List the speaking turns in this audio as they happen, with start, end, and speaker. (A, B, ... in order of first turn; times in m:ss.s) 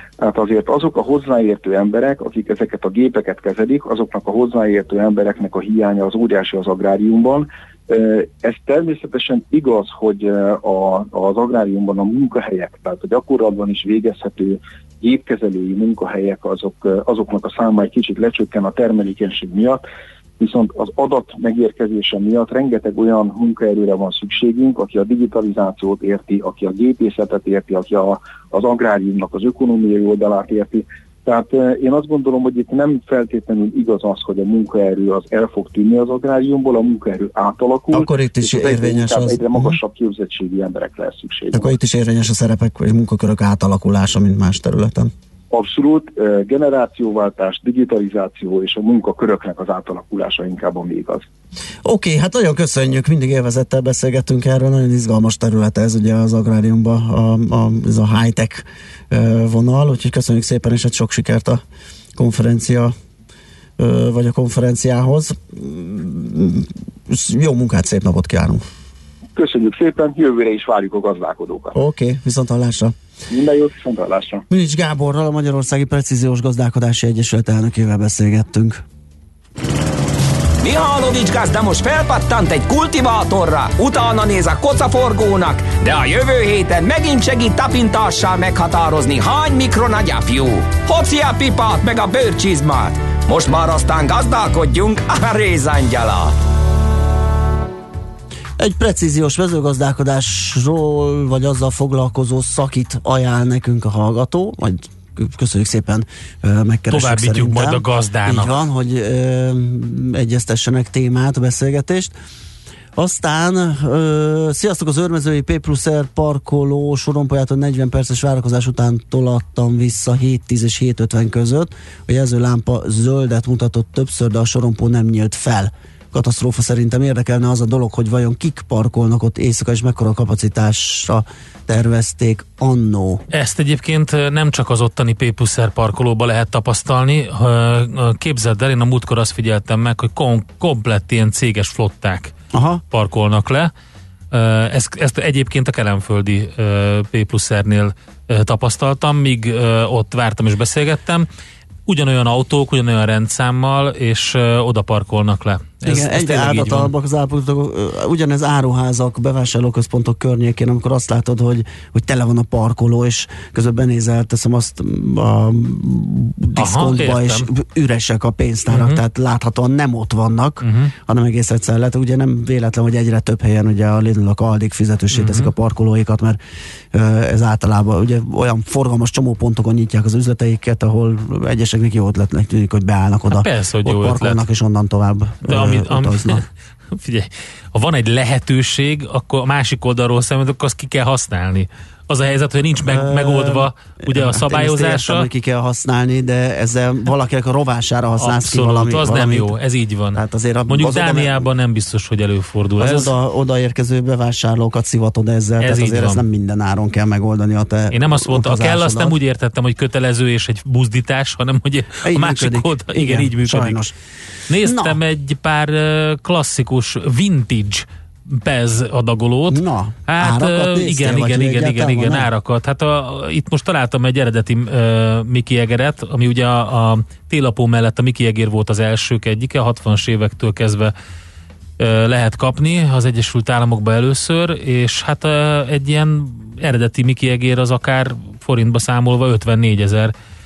0:00.2-0:19.8 A
0:20.4-0:41.7 A
0:37.9-0:39.8 B
0:41.5-0:45.1 B
0:45.5-0:51.2 A
0:51.8-1:01.6 B
1:02.2-1:02.9 B
1:03.8-1:08.6 B
1:09.4-1:11.7 A
1:11.7-1:12.9 B
1:13.3-1:14.4 A
1:14.5-1:18.8 B
1:20.6-1:36.4 C
1:38.6-1:52.1 B
1:46.9-1:48.5 D
1:53.0-2:13.2 B
2:13.3-2:22.3 D
2:22.5-2:22.8 B
2:22.9-2:23.7 D
2:24.3-2:31.2 D
2:31.9-2:36.9 D
2:35.8-2:56.4 B
2:46.6-2:47.5 D
2:48.7-2:49.0 D
2:50.6-2:50.9 D
2:55.1-2:55.5 D
2:56.9-3:06.4 B
3:03.3-3:04.4 D
3:05.4-3:15.2 D
3:12.8-3:19.5 B
3:18.2-3:23.1 D
3:20.1-3:21.5 B
3:22.8-3:29.2 B
3:25.6-3:26.2 D
3:27.9-3:33.8 D
3:32.0-3:33.9 B
3:34.5-3:50.9 D
3:34.6-3:35.0 B
3:39.5-3:42.3 B
3:51.8-4:00.1 D